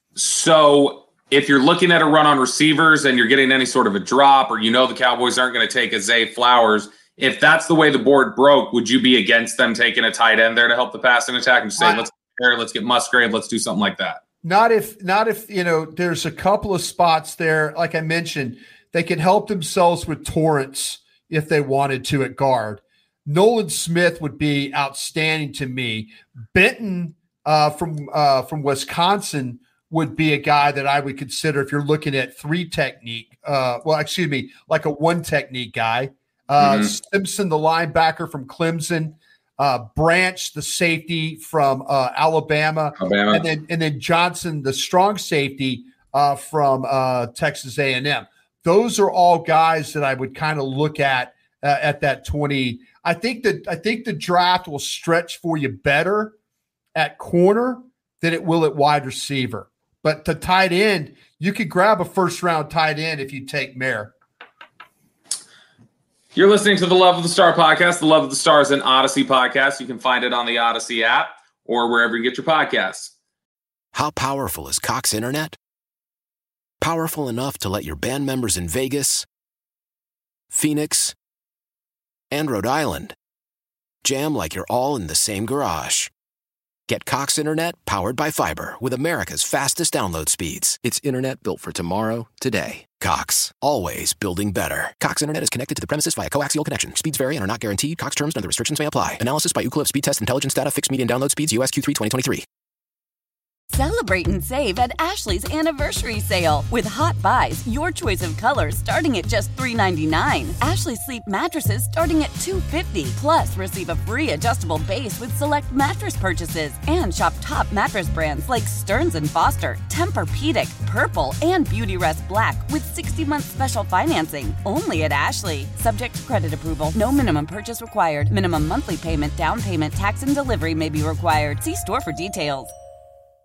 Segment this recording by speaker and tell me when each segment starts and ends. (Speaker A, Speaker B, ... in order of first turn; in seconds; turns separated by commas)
Speaker A: 0.2-14.2, Speaker B: 11.8-12.1, Speaker B: 14.4-56.4, Speaker A: 36.6-36.9, Speaker A: 43.0-43.5, Speaker B: 57.0-64.1, Speaker A: 66.3-73.1, Speaker C: 73.9-75.6, Speaker C: 76.8-79.3, Speaker C: 80.5-81.2, Speaker C: 82.3-83.2, Speaker C: 84.0-86.1, Speaker C: 86.9-102.5, Speaker D: 103.7-132.7